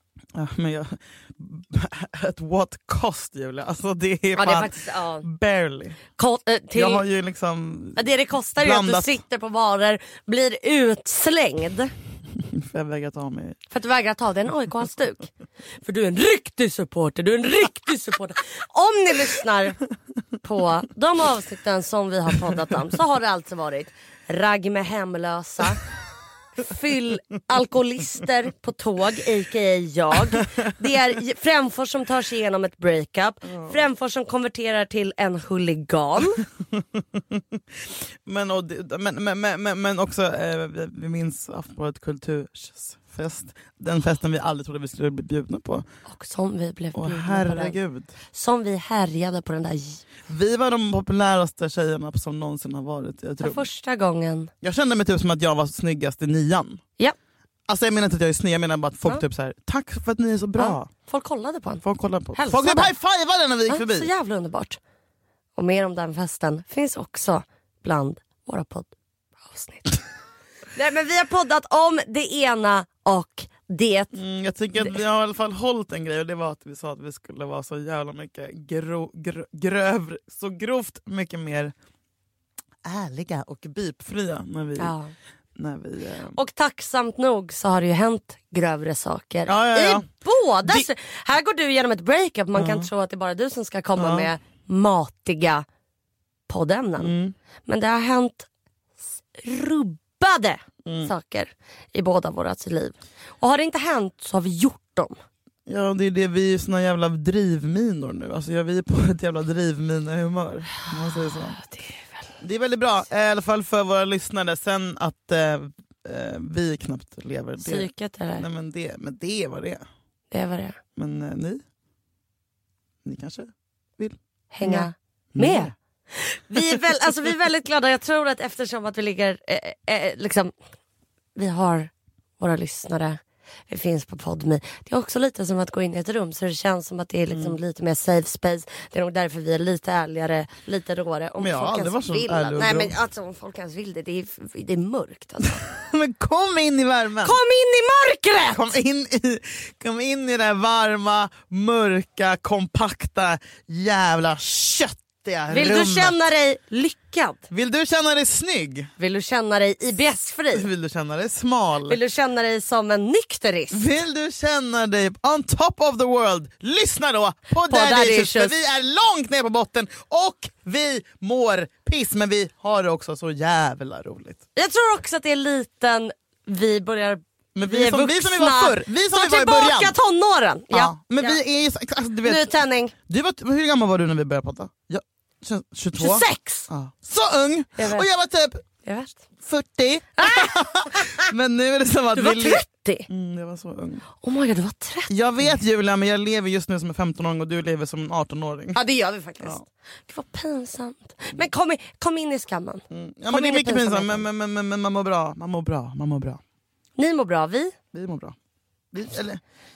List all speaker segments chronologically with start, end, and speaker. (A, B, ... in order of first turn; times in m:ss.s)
0:00.4-0:06.0 A
0:04.4-0:05.3 B
0:06.2-0:07.0 B
0:06.7-0:09.2 A
0:08.0-0:11.9 B
0:12.5-0:13.6 A
0:13.7-0:15.3 B
0:15.8-0:19.8 B
0:20.4-0:25.8 B
0:26.6-0:36.4 B
0:38.3-0:45.8 A
0:46.1-0:47.8 B
0:46.9-0:48.1 A
0:48.3-0:50.0 B
0:50.3-0:53.7 A
0:53.4-0:54.5 B
0:54.6-0:56.8 A
0:57.7-1:00.9 A
1:00.6-1:01.8 B
1:01.8-1:04.1 A
1:02.3-1:03.0 B
1:03.7-1:04.8 B
1:05.6-1:08.9 B
1:09.4-1:10.0 B
1:10.8-1:14.2 B
1:14.1-1:21.7 A
1:22.8-1:25.0 A
1:24.8-1:25.1 B
1:25.6-1:26.4 A
1:26.4-1:35.6 B
1:29.5-1:30.1 A
1:30.6-1:30.9 A
1:32.6-1:32.9 A
1:34.0-1:34.3 A
1:36.5-1:37.1 B
1:37.0-1:37.4 A
1:37.7-1:38.5 B
1:39.4-1:45.2 B
1:40.9-1:41.1 A
1:45.7-1:51.6 A
1:52.4-1:59.8 A
1:57.6-1:58.5 B
2:00.3-2:00.8 B
2:01.0-2:01.6 A
2:03.0-2:05.7 A
2:04.5-2:05.7 B
2:06.3-2:10.5 B
2:11.4-2:13.2 B
2:13.7-2:25.6 B
2:17.3-2:17.6 A
2:21.4-2:23.0 A
2:25.8-2:27.4 A
2:27.2-2:28.7 B
2:28.5-2:36.2 A
2:35.5-2:37.4 B
2:37.5-2:38.9 A
2:39.0-2:40.7 B
2:40.5-2:42.0 A
2:41.9-2:43.8 B
2:43.7-2:54.4 A
2:47.7-2:48.6 B
2:54.6-3:01.4 B
2:57.6-2:59.9 A
3:00.7-3:08.6 A
3:02.2-3:02.9 B
3:06.0-3:06.7 B
3:07.8-3:08.1 B
3:08.8-3:09.2 B
3:09.4-3:14.1 A
3:10.2-3:11.3 B
3:12.2-3:13.1 B
3:14.2-3:15.6 B
3:15.1-3:18.8 A
3:18.7-3:24.2 B
3:22.9-3:26.4 A
3:27.0-3:27.7 B
3:27.9-3:28.4 A
3:28.9-3:29.4 A